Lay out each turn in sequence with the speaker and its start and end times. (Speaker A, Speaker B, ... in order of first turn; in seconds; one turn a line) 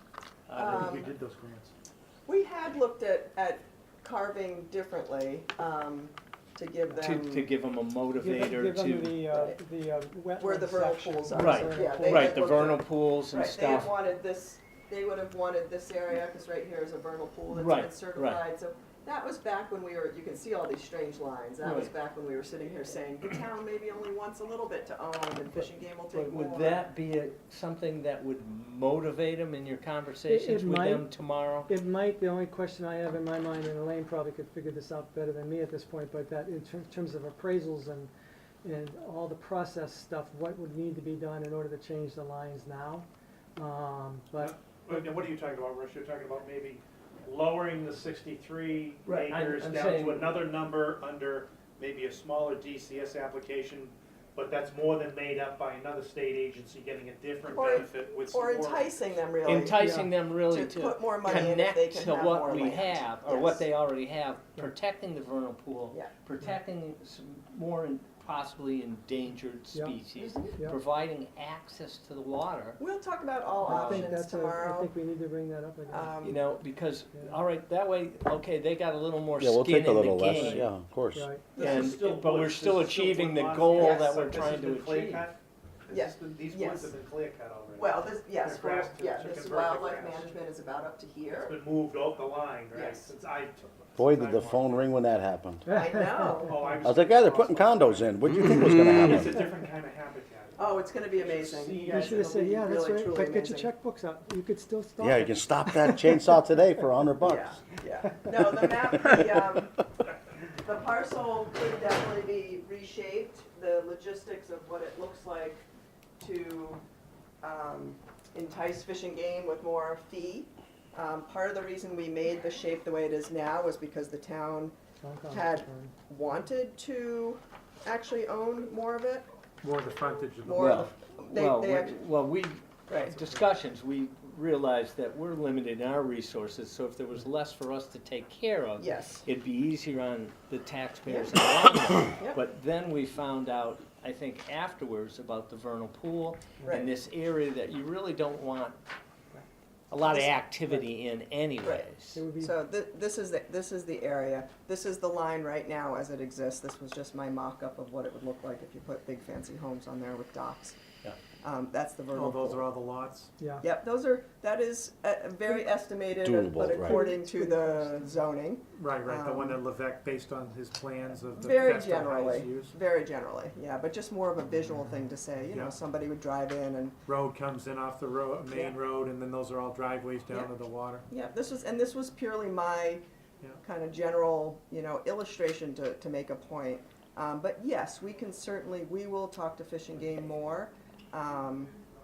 Speaker A: 0.5-1.1
Speaker B: 0.6-1.1
Speaker C: 0.6-1.7
Speaker B: 2.3-7.5
Speaker D: 6.9-7.2
Speaker A: 7.0-9.4
Speaker D: 8.2-12.6
Speaker B: 9.3-9.6
Speaker B: 10.4-26.9
Speaker A: 11.3-13.9
Speaker A: 17.5-18.4
Speaker A: 21.6-21.9
Speaker A: 26.1-31.7
Speaker D: 30.3-38.1
Speaker D: 38.6-44.5
Speaker C: 44.4-58.9
Speaker A: 49.1-50.4
Speaker B: 57.4-59.8
Speaker A: 59.5-72.8
Speaker D: 59.8-60.1
Speaker B: 60.4-63.7
Speaker D: 69.7-70.8
Speaker B: 72.8-74.9
Speaker D: 73.6-76.2
Speaker A: 73.7-74.1
Speaker B: 75.9-76.4
Speaker A: 76.2-80.7
Speaker E: 79.4-81.3
Speaker D: 80.3-81.6
Speaker A: 81.6-85.3
Speaker C: 81.6-90.4
Speaker B: 81.6-81.9
Speaker B: 83.8-84.2
Speaker B: 85.9-86.9
Speaker B: 87.7-91.6
Speaker C: 91.3-94.9
Speaker B: 92.7-93.1
Speaker E: 94.0-95.7
Speaker D: 95.7-96.8
Speaker B: 95.7-96.7
Speaker C: 96.3-102.3
Speaker E: 96.8-99.4
Speaker B: 100.6-103.7
Speaker D: 101.8-106.4
Speaker E: 105.0-107.6
Speaker B: 107.2-109.8
Speaker B: 110.6-115.7
Speaker B: 116.2-116.8
Speaker B: 117.4-124.8
Speaker D: 125.0-125.9
Speaker B: 125.3-129.3
Speaker C: 129.6-130.9
Speaker B: 130.4-132.0
Speaker A: 130.6-148.8
Speaker B: 132.9-133.2
Speaker C: 133.1-133.5
Speaker B: 138.8-139.3
Speaker B: 141.1-141.4
Speaker B: 146.6-146.9
Speaker A: 149.9-152.2
Speaker B: 150.0-150.4
Speaker B: 151.6-160.8
Speaker D: 152.1-152.6
Speaker B: 161.4-162.7
Speaker C: 162.1-163.3
Speaker D: 163.4-163.7
Speaker B: 163.6-169.6
Speaker E: 166.2-167.1
Speaker D: 166.7-168.1
Speaker C: 168.7-172.8
Speaker B: 171.4-177.0
Speaker C: 175.5-175.8
Speaker C: 177.1-181.1
Speaker B: 178.5-178.8
Speaker B: 181.1-183.0
Speaker B: 183.6-191.7